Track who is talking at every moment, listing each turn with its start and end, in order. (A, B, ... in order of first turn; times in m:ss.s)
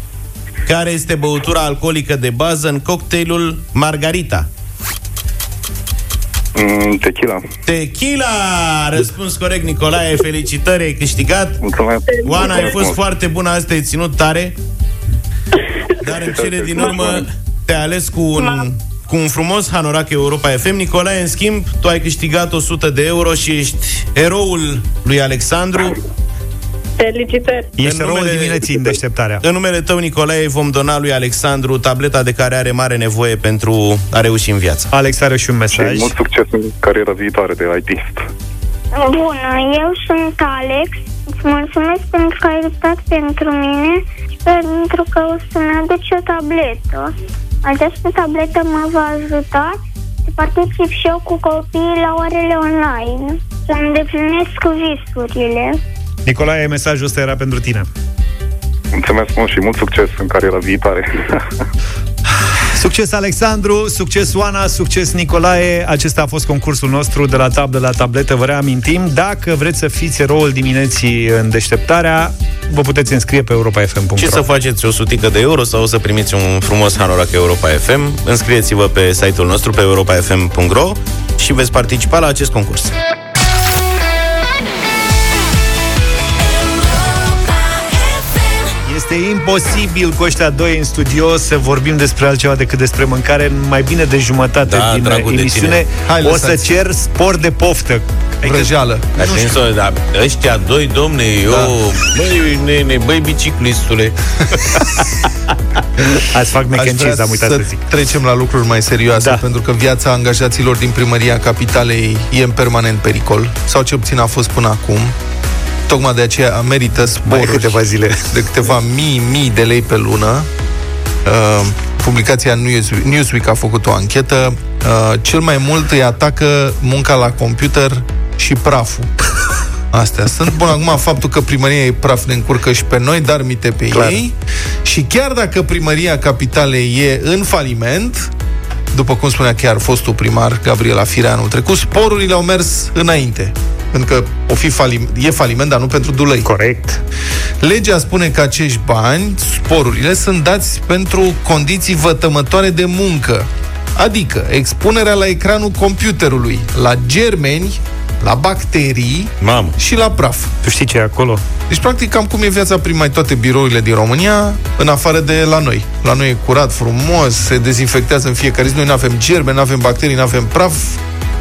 0:00.6-0:04.5 A
0:06.6-0:07.4 B
0:07.6-0:11.6 A
0:11.6-0:13.0 B
0:12.0-0:12.8 C
0:12.2-0:14.6 A
0:16.0-0:26.0 A
0:16.1-0:17.2 B
0:16.8-0:17.2 C
0:18.4-0:18.7 C
0:27.0-0:27.8 C
0:27.8-0:29.4 D
0:27.8-0:28.9 A
0:29.4-0:34.9 A
0:34.9-0:36.1 D
0:35.7-0:38.2 B
0:39.0-0:47.1 E
0:47.6-0:55.8 E
0:56.2-0:57.9 D
0:59.0-1:01.4 B
1:02.7-1:14.4 D
1:14.2-1:23.0 A
1:28.9-1:39.5 D
1:34.6-1:35.8 A
1:36.0-1:36.8 F
1:38.4-1:39.3 F
1:39.2-1:45.2 A
1:46.3-1:47.8 D
1:46.7-1:55.1 F
1:49.2-1:49.4 D
1:55.9-2:00.5 F
1:57.2-1:58.3 D
2:01.2-2:09.1 F
2:09.9-2:18.3 F
2:18.9-2:26.5 F
2:26.4-2:27.0 D
2:27.6-2:40.5 F
2:39.4-2:39.7 A
2:40.6-2:41.4 D
2:41.7-2:51.0 F